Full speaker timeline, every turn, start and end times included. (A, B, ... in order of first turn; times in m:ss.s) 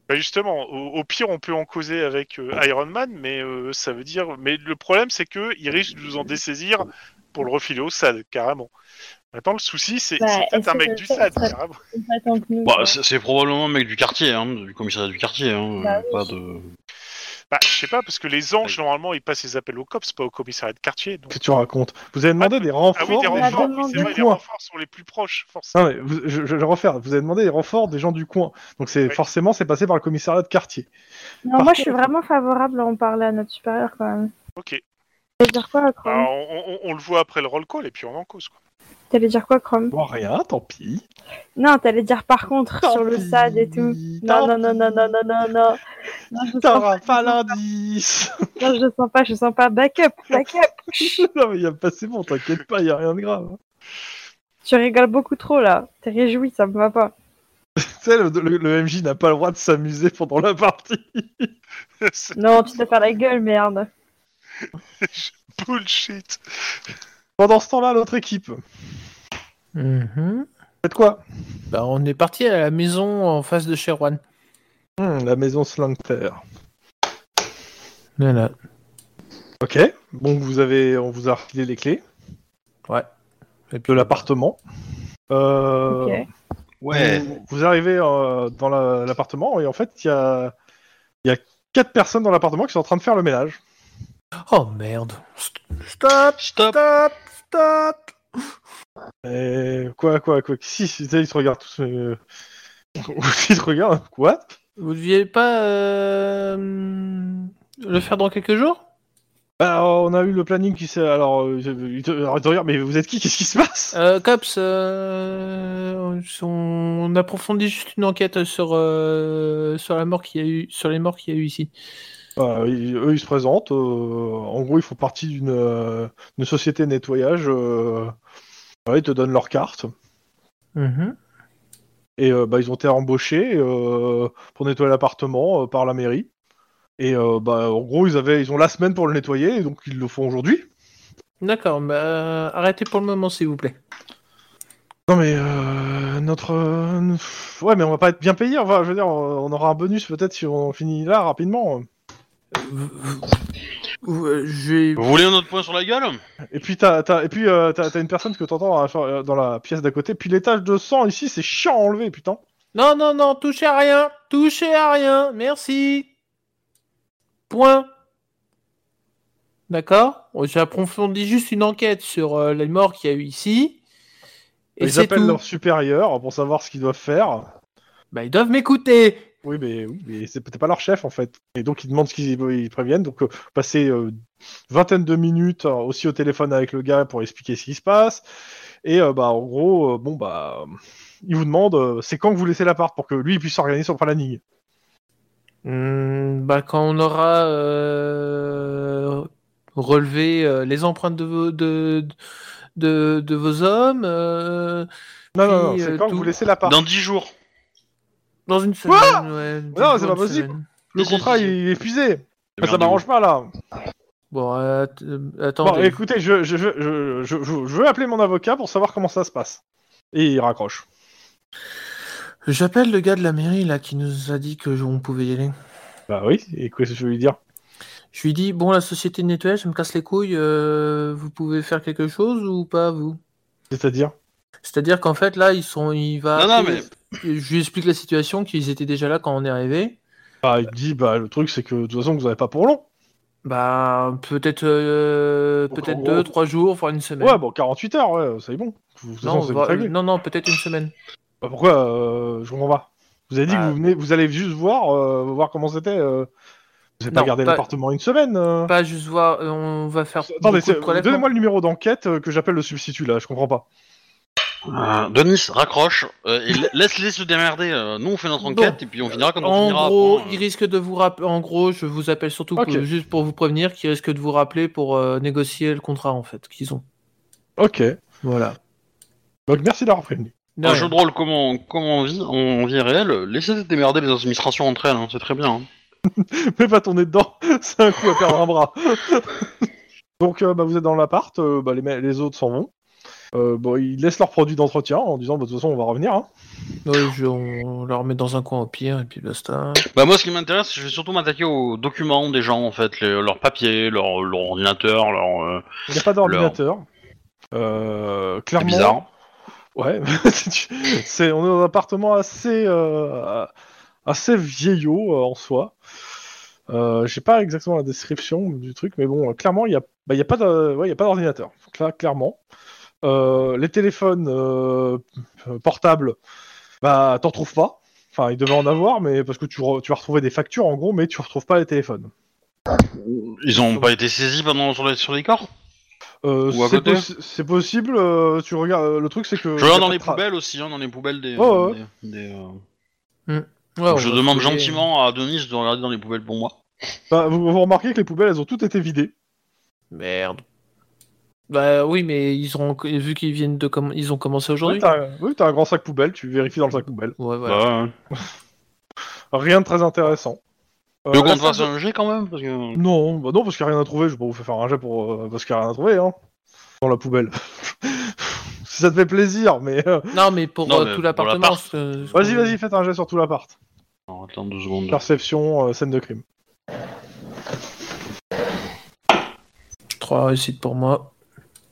0:00.1-0:08.7 A
0:09.3-0:11.8 A
0:10.2-0:13.0 B
0:12.6-0:16.7 C
0:15.8-0:16.3 B
0:17.5-0:21.4 A
0:21.3-0:24.4 D
0:22.4-0:25.8 A
0:23.0-0:24.2 B
0:25.7-0:30.9 D
0:31.5-0:34.3 B
0:31.6-0:32.1 D
0:34.6-0:34.8 A
0:35.4-0:36.3 B
0:36.0-0:38.6 A
0:39.1-0:39.9 B
0:39.9-0:41.0 D
0:41.6-0:45.8 B
0:42.8-0:45.2 D
0:46.3-0:47.5 B
0:46.6-0:48.5 D
0:48.6-0:51.3 B
0:51.0-0:53.6 D
0:54.6-0:57.1 B
0:57.8-1:01.5 D
1:02.0-1:02.4 A
1:02.4-1:03.9 B
1:05.0-1:06.4 A
1:07.4-1:08.6 D
1:09.8-1:10.5 E
1:10.8-1:11.2 D
1:11.7-1:14.2 E
1:15.0-1:16.4 D
1:18.2-1:18.5 E
1:19.6-1:22.0 D
1:23.7-1:24.2 E
1:23.9-1:24.6 D
1:25.3-1:26.2 D
1:25.9-1:26.2 B
1:26.8-1:27.3 C
1:26.9-1:30.5 D
1:31.2-1:33.6 D
1:34.5-1:38.1 E
1:36.4-1:36.8 C
1:39.2-1:42.2 D
1:43.0-1:44.4 D
1:44.8-1:48.8 E
1:49.6-1:54.0 D
1:53.9-2:01.7 E
2:02.4-2:08.1 D
2:08.9-2:09.9 D
2:10.8-2:11.2 E
2:12.2-2:16.3 D
2:17.0-2:20.7 D
2:21.4-2:23.8 E
2:25.1-2:31.9 D
2:32.5-2:33.4 E
2:34.0-2:35.1 E
2:35.0-2:36.2 C
2:36.5-2:42.4 D
2:42.7-2:46.1 E
2:47.5-2:47.9 E
2:49.7-2:53.8 E
2:54.8-2:55.4 E
2:54.8-2:57.5 D
2:58.1-2:59.3 E
2:59.4-3:04.2 D
3:04.7-3:08.2 D
3:08.8-3:14.4 D
3:15.6-3:22.1 E
3:22.8-3:24.9 E
3:25.3-3:26.8 D
3:25.4-3:26.3 E
3:26.6-3:27.3 C
3:28.5-3:30.7 E
3:28.9-3:33.5 D
3:31.0-3:31.5 C
3:32.6-3:33.0 C
3:34.3-3:36.0 E
3:35.6-3:39.6 D
3:40.1-3:40.8 D
3:42.4-3:45.5 E
3:46.1-3:47.4 D
3:48.1-3:53.2 E
3:53.7-3:54.1 D
3:54.6-4:00.0 E
3:56.4-3:56.9 C
4:00.4-4:02.8 D
4:03.4-4:07.4 E
4:05.7-4:06.3 D
4:07.2-4:09.9 D
4:09.2-4:10.9 E
4:11.4-4:16.3 D
4:17.0-4:18.7 D
4:17.1-4:17.6 E
4:18.7-4:21.3 E
4:20.3-4:23.6 D
4:24.7-4:30.4 C
4:28.4-4:28.8 E
4:29.4-4:36.8 E
4:32.6-4:32.8 D
4:37.6-4:38.0 D
4:38.2-4:38.6 E
4:39.5-4:40.3 D
4:40.6-4:40.9 E
4:40.6-4:45.7 C
4:46.1-4:49.5 D
4:50.2-4:52.7 D
4:53.3-4:56.3 D
4:56.8-4:59.9 E
4:59.9-5:05.7 C
5:05.9-5:06.8 D
5:06.2-5:06.6 C
5:07.5-5:09.0 D
5:08.6-5:09.1 C
5:09.8-5:13.5 D
5:14.1-5:15.7 D
5:16.7-5:22.4 D
5:23.0-5:26.2 D
5:26.8-5:32.1 D
5:32.7-5:35.5 C
5:33.6-5:33.9 D
5:36.2-5:40.2 D
5:36.5-5:37.1 C
5:39.5-5:42.6 C
5:41.4-5:41.8 D
5:43.3-5:44.8 E
5:43.9-5:46.6 C
5:47.1-5:49.1 D
5:49.9-5:50.4 E
5:51.5-5:54.9 E
5:54.6-5:57.2 D
5:57.2-5:57.6 E
5:57.5-5:57.9 C
5:59.3-6:00.4 D
6:01.1-6:01.7 D
6:01.1-6:02.8 C
6:02.8-6:06.2 D
6:06.8-6:10.2 D
6:10.1-6:12.6 E
6:10.6-6:11.6 C
6:12.1-6:13.6 D
6:14.1-6:15.0 C
6:14.9-6:16.2 D
6:20.0-6:21.1 E